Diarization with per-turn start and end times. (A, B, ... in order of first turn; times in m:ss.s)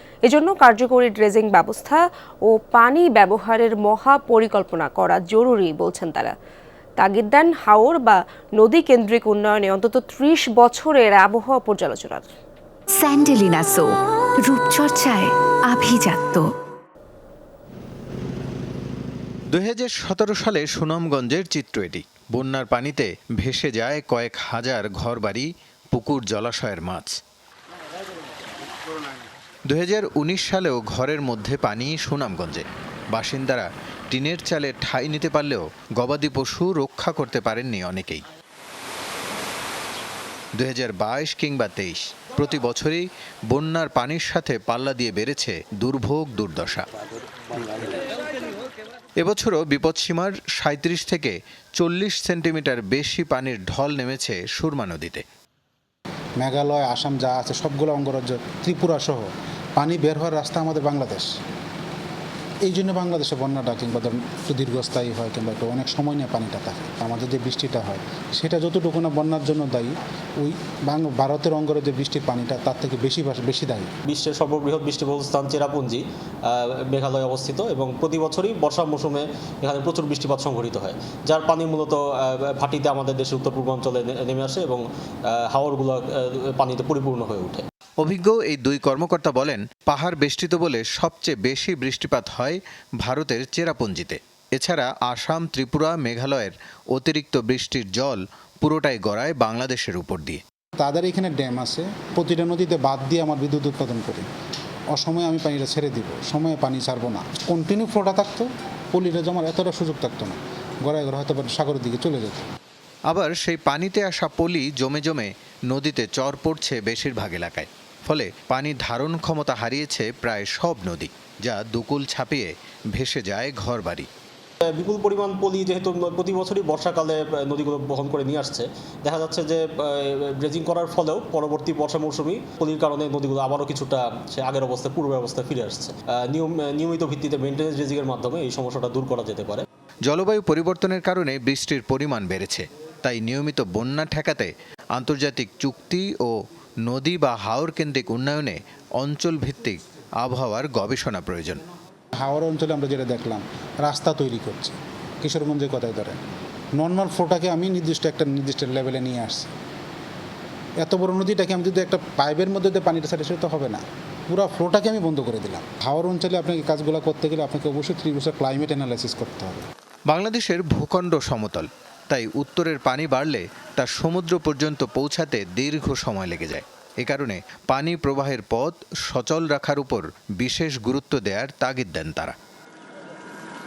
0:00.2-0:06.3 A
0:07.0-0:12.3 A
0:12.9-0:16.5 B
0:19.5-0:27.2 C
0:29.7-0:38.2 C
0:40.6-0:46.8 C
0:49.2-0:55.2 C
0:56.4-1:01.3 D
1:02.6-1:13.9 D
1:14.0-1:27.6 E
1:28.0-1:40.4 C
1:40.8-1:44.2 D
1:44.9-1:52.5 D
1:53.1-2:04.1 C
2:04.6-2:19.6 E
2:20.1-2:26.3 C
2:26.8-2:31.6 C
2:32.2-2:36.2 D
2:36.8-2:39.5 D
2:40.8-2:49.7 D
2:50.1-3:02.3 C